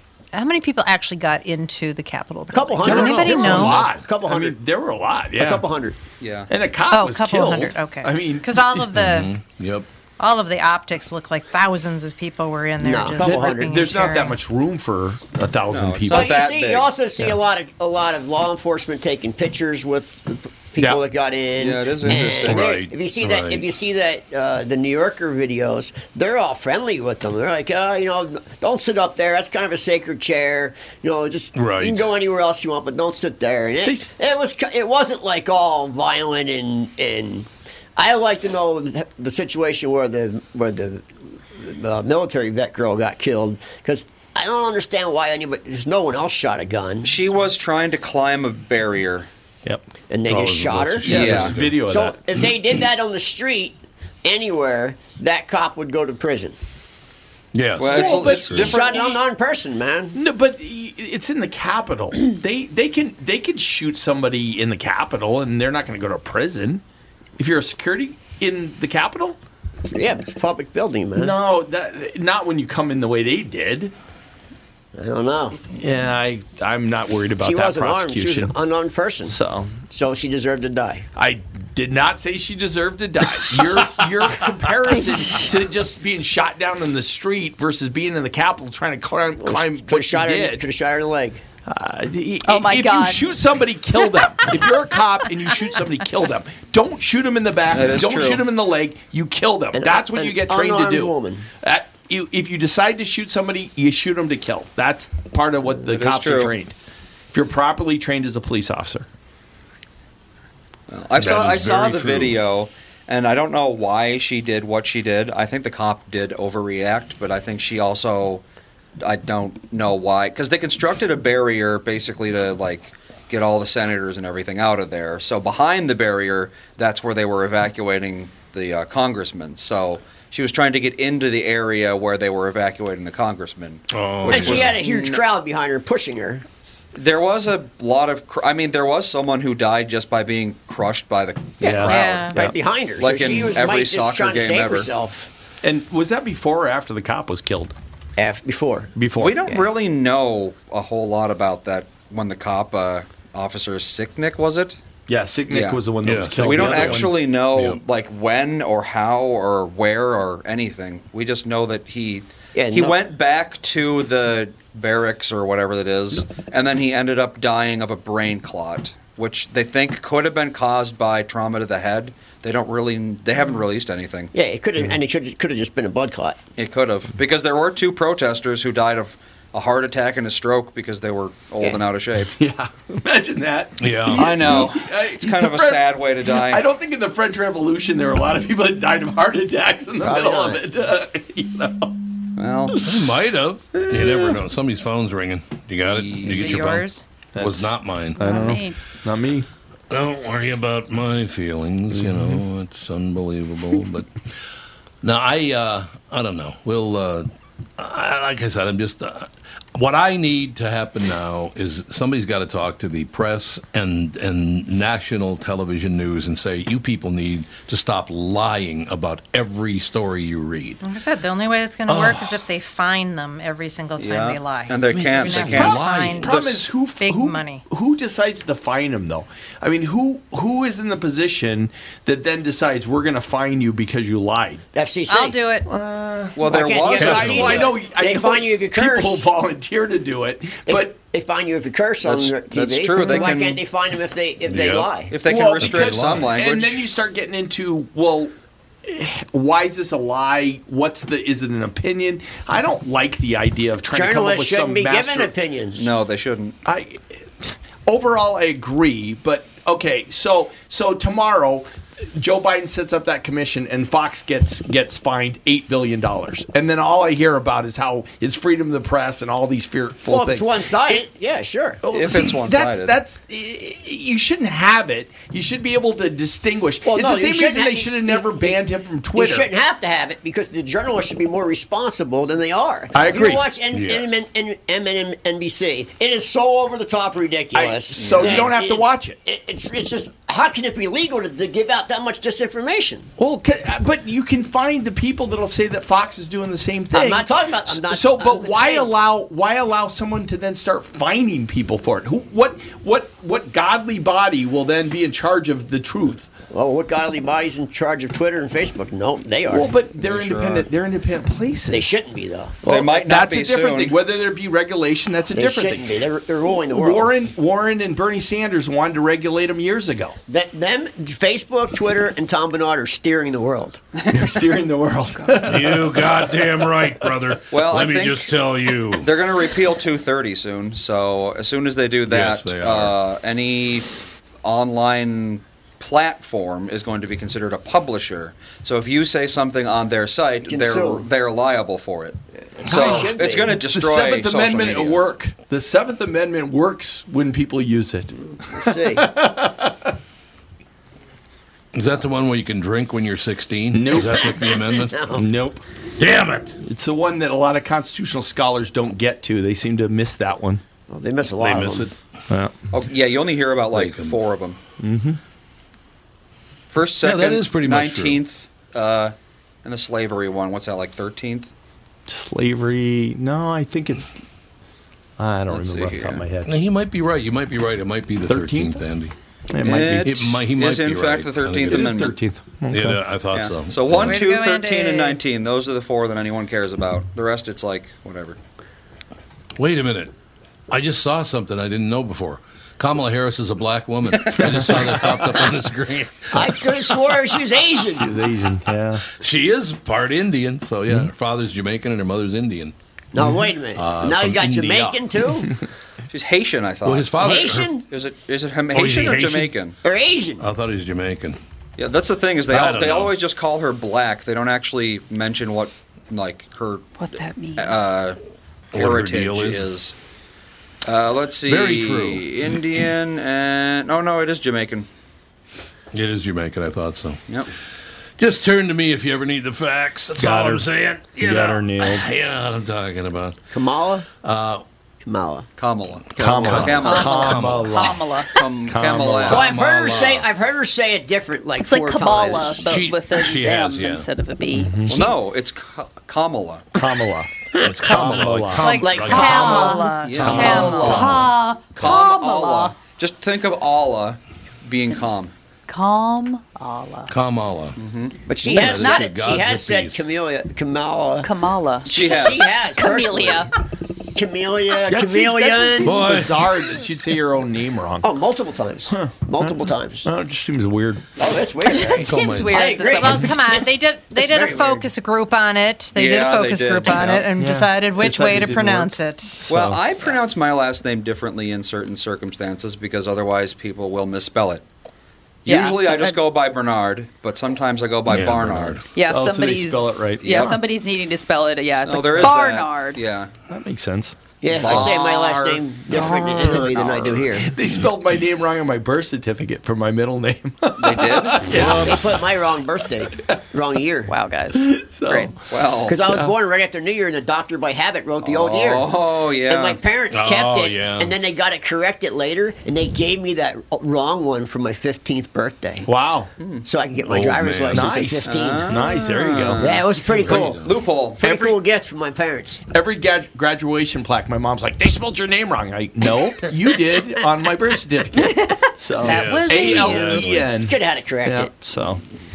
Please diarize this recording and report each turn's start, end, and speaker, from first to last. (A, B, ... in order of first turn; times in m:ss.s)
0:00.3-0:03.9 A
0:02.5-0:04.6 B
0:02.8-0:03.9 C
0:02.9-0:05.6 D
0:05.4-0:06.0 B
0:06.2-0:06.5 E
0:06.5-0:08.9 D
0:06.9-0:09.3 A
0:08.9-0:09.9 C
0:10.2-0:14.4 A
0:12.8-0:13.8 B
0:13.2-0:16.4 D
0:15.7-0:16.9 E
0:16.1-0:47.2 B
0:21.6-0:22.7 E
0:22.3-0:23.6 C
0:31.6-0:32.0 C
0:33.8-0:34.4 D
0:47.0-0:49.3 E
0:50.1-0:51.4 B
0:50.3-0:51.8 C
0:51.1-0:51.6 E
0:51.1-0:52.2 D
0:51.9-0:56.6 B
0:57.5-0:58.7 C
0:57.8-0:59.2 E
0:57.9-0:58.8 D
0:58.4-1:00.2 B
1:00.2-1:06.8 D
1:07.4-1:09.4 D
1:09.8-1:11.4 B
1:11.2-1:13.9 D
1:15.0-1:15.6 B
1:15.8-1:18.5 D
1:17.4-1:19.4 B
1:19.2-1:19.7 D
1:19.9-1:21.1 B
1:21.2-1:30.6 D
1:29.4-1:31.4 B
1:31.7-1:46.8 D
1:32.4-1:33.2 F
1:37.7-1:38.5 E
1:39.7-1:41.5 B
1:45.8-1:46.6 E
1:47.3-1:49.1 D
1:50.9-1:58.4 E
1:51.2-1:52.4 C
1:59.0-2:15.2 E
2:13.9-2:14.8 C
2:14.3-2:16.5 B
2:16.9-2:22.2 E
2:21.6-2:22.6 D
2:21.6-2:25.3 B
2:21.8-2:22.4 A
2:23.0-2:24.9 E
2:25.6-2:27.8 D
2:28.2-2:29.7 B
2:29.0-2:29.4 D
2:29.2-2:34.8 E
2:35.1-2:37.1 D
2:35.5-2:54.3 E
2:36.0-2:37.8 C
2:42.6-2:43.0 B
2:54.3-2:56.4 B
2:56.6-3:02.3 E
3:02.4-3:11.9 D
3:03.8-3:04.7 C
3:04.1-3:06.7 E
3:10.0-3:10.6 B
3:12.4-3:12.8 E
3:12.7-3:13.0 D
3:12.8-3:18.4 C
3:13.8-3:14.4 D
3:15.9-3:16.6 E
3:16.2-3:17.0 A
3:17.4-3:19.5 D
3:18.2-3:18.8 F
3:19.9-3:24.1 C
3:22.0-3:22.4 D
3:25.0-3:40.8 C
3:40.8-3:46.4 A
3:41.9-3:42.4 C
3:44.0-3:46.7 E
3:44.9-3:46.3 C
3:46.2-3:54.7 D
3:47.0-3:47.6 A
3:54.7-3:55.4 B
3:55.1-3:55.7 A
3:55.6-3:56.4 D
3:56.4-3:57.8 E
3:56.4-3:59.3 B
3:56.9-4:01.0 D
3:57.0-3:57.6 C
4:00.7-4:05.1 B
4:02.0-4:03.6 E
4:03.0-4:03.3 D
4:04.5-4:04.9 C
4:05.1-4:06.9 E
4:05.2-4:15.3 D
4:05.6-4:06.3 C
4:13.9-4:15.9 B
4:15.7-4:16.6 E
4:16.6-4:31.0 D
4:30.1-4:31.8 B
4:31.8-4:39.5 D
4:31.9-4:33.0 E
4:36.8-4:38.6 B
4:39.1-4:53.1 B
4:42.9-4:43.4 D
4:43.7-4:44.1 C
4:47.6-4:49.2 D
4:48.0-4:48.5 E
4:53.2-5:06.3 D
4:56.9-4:58.9 B
5:06.5-5:09.8 B
5:09.5-5:12.0 D
5:10.0-5:10.7 E
5:11.7-5:12.6 B
5:12.6-5:15.9 D
5:12.7-5:14.0 E
5:15.3-5:17.3 B
5:16.6-5:20.2 D
5:20.3-5:23.8 B
5:24.0-5:24.4 E
5:24.1-5:27.1 D
5:25.4-5:29.1 C
5:27.5-5:28.3 E
5:29.0-5:33.9 E
5:32.1-5:32.9 C
5:34.4-5:45.1 E
5:40.4-5:41.1 B
5:42.4-5:43.6 B
5:42.7-5:49.9 D
5:48.6-5:49.1 B
5:51.7-5:55.0 C
5:53.7-5:54.3 D
5:54.4-5:55.3 B
5:55.1-5:55.6 D
5:56.0-5:56.6 C
5:56.6-6:00.6 D
6:00.9-6:01.9 B
6:01.4-6:02.0 C
6:02.7-6:04.6 E
6:03.7-6:04.2 C
6:04.8-6:05.2 D
6:06.7-6:11.5 E
6:07.0-6:08.2 C
6:12.1-6:14.2 D
6:15.2-6:16.5 D
6:15.5-6:16.2 E
6:16.5-6:19.2 C
6:18.2-6:18.8 D
6:19.5-6:20.2 D
6:19.6-6:22.2 E
6:20.0-6:22.0 C
6:21.6-6:23.0 D
6:22.7-6:24.2 C
6:23.3-6:28.4 E
6:24.0-6:25.2 A
6:29.6-6:30.1 C
6:30.7-6:37.3 C
6:34.1-6:35.5 E
6:36.3-6:38.2 B
6:38.0-6:39.1 D
6:39.2-6:42.7 C
6:43.1-6:45.5 B
6:43.8-6:45.0 C
6:46.1-6:47.3 E
6:46.8-6:47.8 C
6:47.2-6:47.8 B
6:47.9-6:49.8 E
6:48.7-6:49.5 C
6:49.8-6:50.4 B
6:50.4-6:51.4 C
6:51.8-6:58.2 E
6:52.5-6:53.1 C
6:57.0-6:57.9 F
6:58.7-6:59.7 C
6:58.7-7:00.0 E
7:00.8-7:04.9 E
7:01.5-7:02.3 C
7:05.9-7:07.2 C
7:08.2-7:13.4 C
7:10.2-7:12.1 D
7:13.5-7:14.1 B
7:14.2-7:14.6 C
7:15.0-7:15.5 B
7:15.6-7:17.4 E
7:16.2-7:17.1 B
7:16.2-7:19.5 D
7:16.4-7:17.9 C
7:16.9-7:18.4 F
7:18.3-7:20.1 E
7:19.3-7:20.3 C
7:19.3-7:22.7 B
7:21.6-7:25.0 F
7:22.6-7:24.1 C
7:24.5-7:25.0 D
7:24.9-7:26.8 E
7:26.8-7:28.7 D
7:27.6-7:27.9 B
7:27.6-7:31.3 C
7:28.6-7:31.1 A
7:28.8-7:29.7 B
7:29.0-7:32.7 F
7:30.0-7:30.6 E
7:30.3-7:31.2 D
7:30.3-7:31.3 B
7:31.8-7:35.3 E
7:35.7-7:37.1 F
7:37.1-7:37.8 C
7:37.8-7:38.1 E
7:38.3-7:41.3 B
7:38.4-7:40.0 C
7:38.8-7:39.1 F
7:41.2-7:43.5 F
7:41.9-7:43.5 B
7:41.9-7:42.4 E
7:44.1-7:46.0 B
7:44.9-7:48.1 D
7:45.8-7:46.5 C
7:48.0-7:50.1 B
7:48.9-7:51.0 D
7:51.2-7:54.9 B
7:51.6-7:53.4 F
7:51.9-7:52.7 C
7:52.7-7:59.4 A
7:56.0-7:57.3 E
7:57.4-7:59.8 D
7:59.5-8:04.6 E
8:05.4-8:08.8 E
8:05.5-8:06.2 F
8:08.1-8:08.9 C
8:08.9-8:13.0 F
8:09.0-8:10.6 D
8:10.2-8:10.6 E
8:11.8-8:13.3 E
8:13.5-8:14.9 D
8:14.4-8:17.5 B
8:14.5-8:16.0 E
8:15.9-8:16.8 D
8:16.6-8:17.3 E
8:17.4-8:22.2 D
8:20.8-8:21.5 E
8:21.5-8:22.2 C
8:21.6-8:24.1 B
8:24.1-8:25.4 F
8:24.5-8:25.4 D
8:25.5-8:26.0 E
8:25.9-8:28.9 B
8:26.1-8:26.3 D
8:28.2-8:29.8 E
8:29.5-8:35.9 B
8:30.1-8:31.1 C
8:35.9-8:36.3 D
8:36.4-8:36.7 E
8:36.7-8:38.8 B
8:37.0-8:38.0 C
8:37.7-8:39.8 D
8:38.2-8:41.2 E
8:39.6-8:40.6 B
8:40.1-8:40.7 C
8:41.2-8:41.6 D
8:41.2-8:42.6 B
8:42.7-8:52.0 D
8:49.0-8:50.6 C
8:49.0-8:50.2 A
8:50.6-8:51.5 B